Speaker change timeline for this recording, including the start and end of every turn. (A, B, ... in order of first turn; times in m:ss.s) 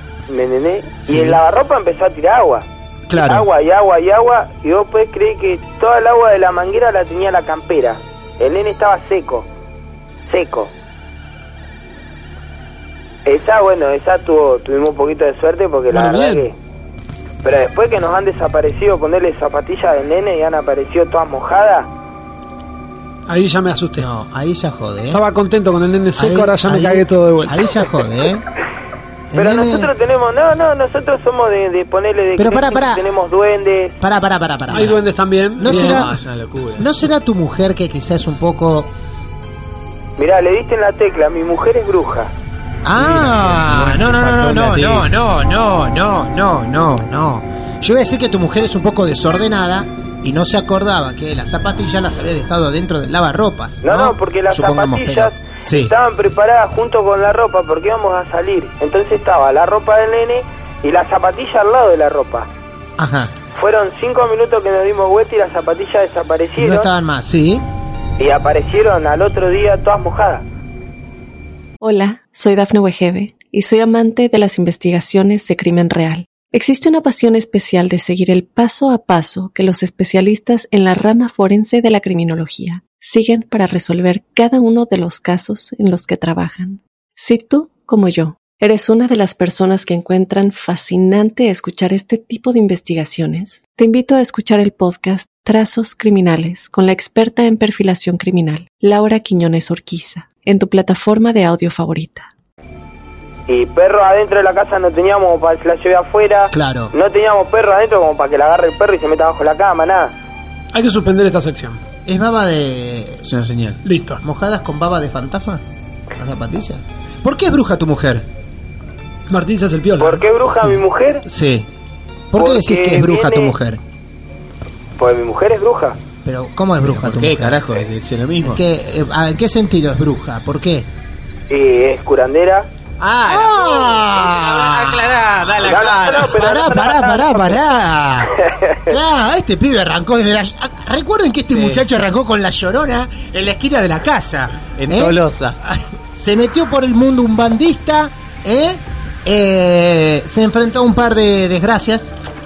0:00.3-0:09.5 A
0:01.1-0:01.4 B
0:03.1-0:03.5 B
0:10.3-0:10.7 A
0:13.2-0:16.5 A
0:15.9-0:16.5 C
0:17.4-0:21.9 A
0:23.3-0:24.1 C
0:24.0-0:25.2 B
0:25.1-0:27.6 C
0:26.2-0:28.4 B
0:29.3-0:29.9 B
0:29.4-0:33.9 A
0:32.4-0:33.1 B
0:34.0-0:35.0 B
0:34.7-0:36.1 C
0:34.7-0:35.0 D
0:35.6-0:36.1 B
0:35.6-0:37.0 D
0:36.8-0:38.9 B
0:40.2-0:42.3 A
0:42.8-0:55.9 B
0:42.9-0:45.1 D
0:53.8-1:02.5 A
1:03.0-1:03.4 B
1:03.5-1:06.9 A
1:06.6-1:07.6 B
1:08.2-1:10.4 A
1:11.8-1:42.3 E
1:43.5-1:50.1 A
1:46.5-1:46.9 B
1:50.7-1:51.8 C
1:52.0-1:53.2 B
1:53.2-1:53.8 D
1:53.8-1:54.2 C
1:54.2-1:55.6 B
1:56.1-1:58.2 B
1:59.3-2:00.2 C
2:00.0-2:01.2 A
2:01.2-2:01.7 B
2:02.3-2:03.8 B
2:02.4-2:03.5 A
2:05.0-2:06.0 A
2:06.2-2:07.6 B
2:06.9-2:08.6 D
2:08.4-2:10.9 B
2:11.5-2:12.7 A
2:13.0-2:16.5 D
2:13.2-2:15.2 B
2:15.6-2:17.6 A
2:16.2-2:18.4 B
2:18.4-2:18.9 A
2:18.9-2:32.1 B
2:21.5-2:21.8 D
2:24.8-2:25.6 D